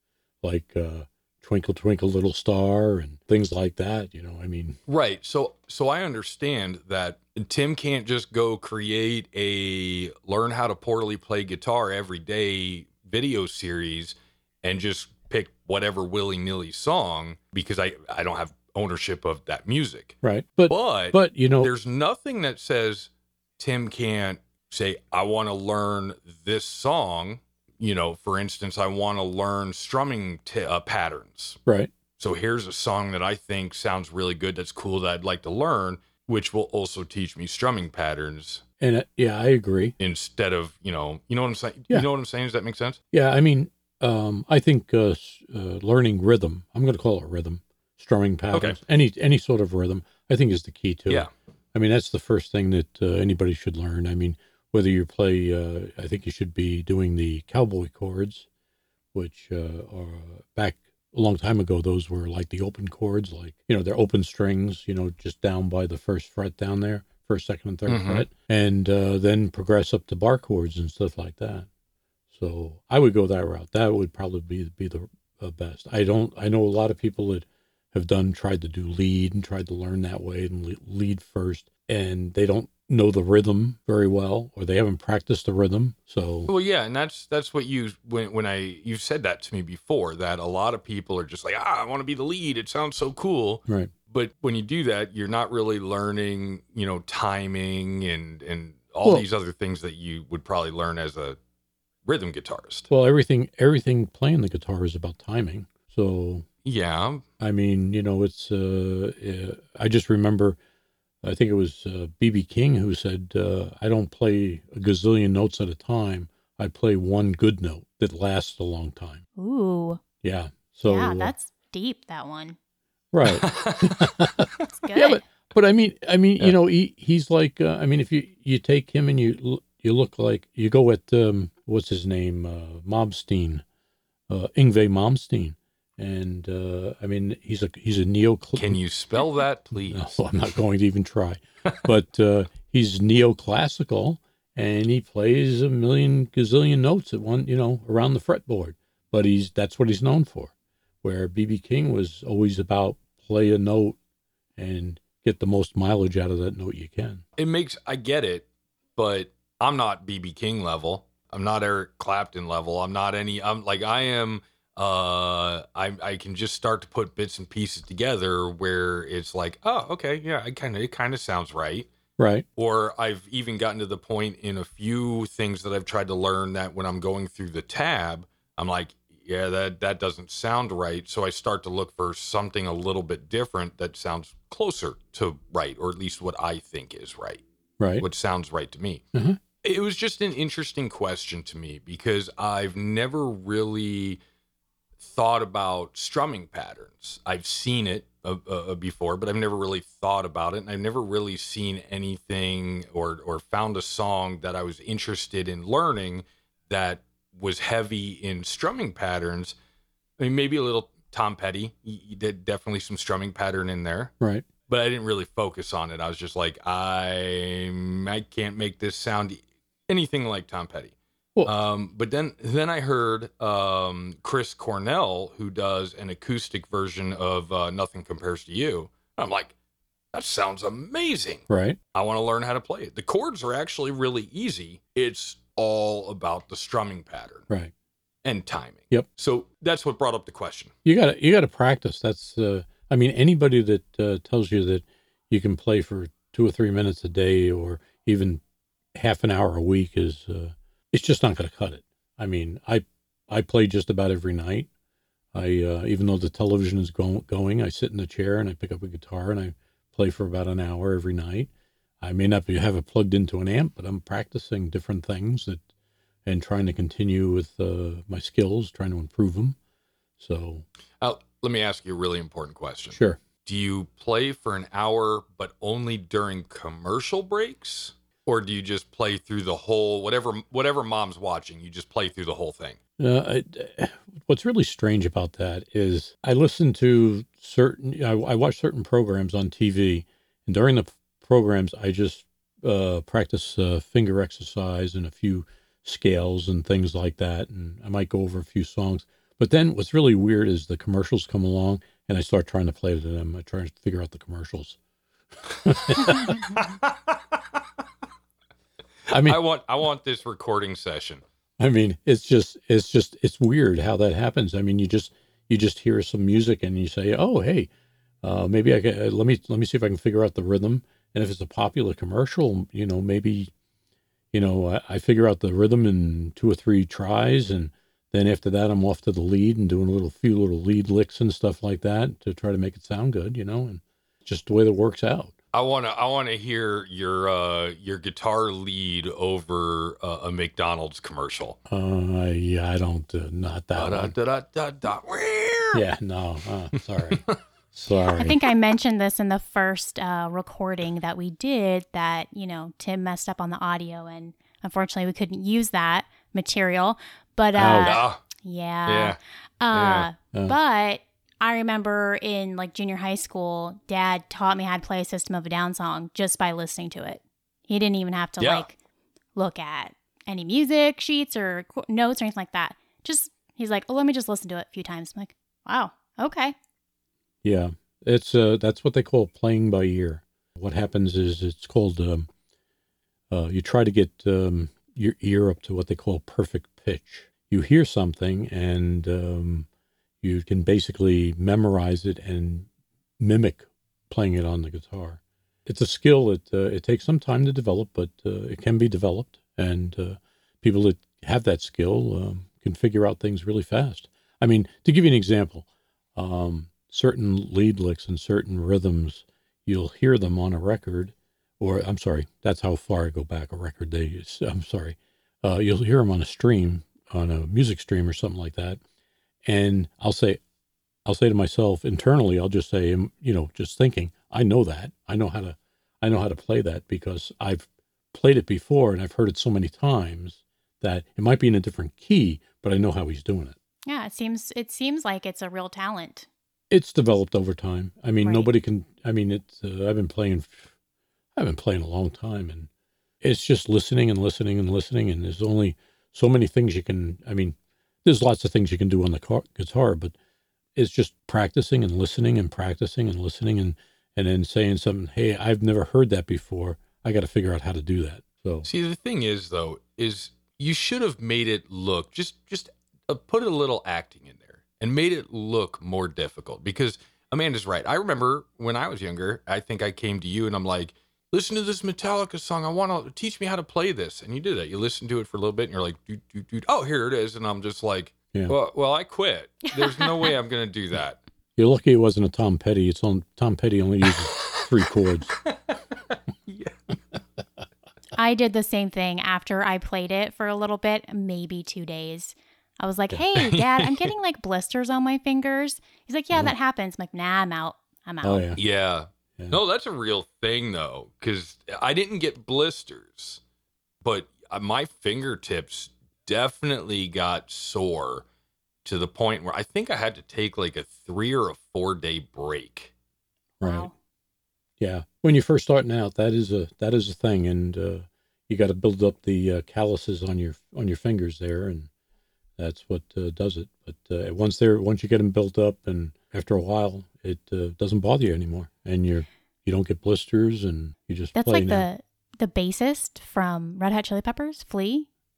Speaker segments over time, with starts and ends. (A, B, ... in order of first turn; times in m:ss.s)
0:00.4-0:04.8 A
0:04.9-0:20.2 B
0:20.2-0:21.7 A
0:20.7-0:31.6 B
0:31.6-0:31.9 A
0:32.2-0:38.6 B
0:38.8-0:39.9 A
0:40.0-0:43.0 B
0:43.1-0:58.5 A
0:48.5-0:48.8 B
0:59.1-1:11.7 A
1:07.9-1:08.2 B
1:12.3-1:26.5 A
1:26.5-1:41.4 B
1:42.0-1:42.9 B
1:42.9-1:46.4 A
1:46.6-1:47.2 B
1:47.4-1:50.6 A
1:51.2-1:59.2 A
1:59.4-2:00.0 C
2:00.2-2:01.3 A
2:00.9-2:02.6 C
2:03.1-2:13.6 A
2:03.3-2:04.1 B
2:04.7-2:05.2 C
2:14.3-2:18.8 A
2:18.6-2:20.0 B
2:19.9-2:34.0 A
2:34.6-2:37.2 A
2:37.4-2:51.9 B
2:52.2-2:52.4 A
2:52.6-3:07.4 B
3:07.8-3:08.0 A
3:08.0-3:09.0 B
3:09.1-3:09.4 A
3:09.6-3:14.2 B
3:15.0-3:29.6 B
3:30.2-3:34.1 B
3:34.2-3:34.5 A
3:34.7-3:40.9 B
3:41.4-3:49.5 B
3:50.1-3:57.4 B
3:51.5-3:51.8 A
3:58.2-4:00.7 B
4:00.8-4:08.4 A
4:08.9-4:14.7 A
4:15.3-4:21.5 A
4:22.0-4:25.6 A
4:26.2-4:29.6 A
4:30.2-4:30.6 A
4:31.0-4:42.8 B
4:32.9-4:33.2 A
4:43.0-5:04.8 A
5:05.5-5:06.6 A
5:06.0-5:06.8 B
5:09.1-5:09.4 A
5:09.1-5:11.2 B
5:11.6-5:17.7 A
5:18.2-5:23.5 A
5:24.3-5:35.3 A
5:35.5-5:41.6 B
5:41.7-5:44.1 A
5:43.7-5:45.8 B
5:45.7-5:48.4 A
5:47.1-5:47.3 B
5:48.1-6:08.8 C
5:57.5-5:58.0 A
5:57.7-5:58.2 B
5:58.9-5:59.2 B
5:59.7-6:00.1 B
6:08.4-6:08.7 B
6:09.4-6:16.5 C
6:17.4-6:22.3 A
6:23.3-6:29.7 A
6:30.2-6:32.7 A
6:33.2-6:58.8 A
6:59.4-7:00.4 A
7:01.0-7:13.5 A
7:13.9-7:16.3 C
7:16.7-7:20.7 A
7:18.2-7:18.5 C
7:21.4-7:22.7 A
7:23.2-7:30.1 A
7:30.8-7:38.7 A
7:38.6-8:01.2 B
7:59.8-8:00.2 C
8:01.6-8:05.3 A
8:04.2-8:04.7 B
8:05.4-8:06.8 B
8:08.2-8:18.5 C
8:13.4-8:14.1 B
8:18.2-8:18.6 A
8:18.6-8:23.4 B
8:24.0-8:28.2 B
8:28.8-8:32.9 B
8:33.6-8:33.9 A
8:33.6-8:33.9 C
8:34.8-8:41.9 A
8:42.6-8:51.9 A
8:51.3-8:55.1 C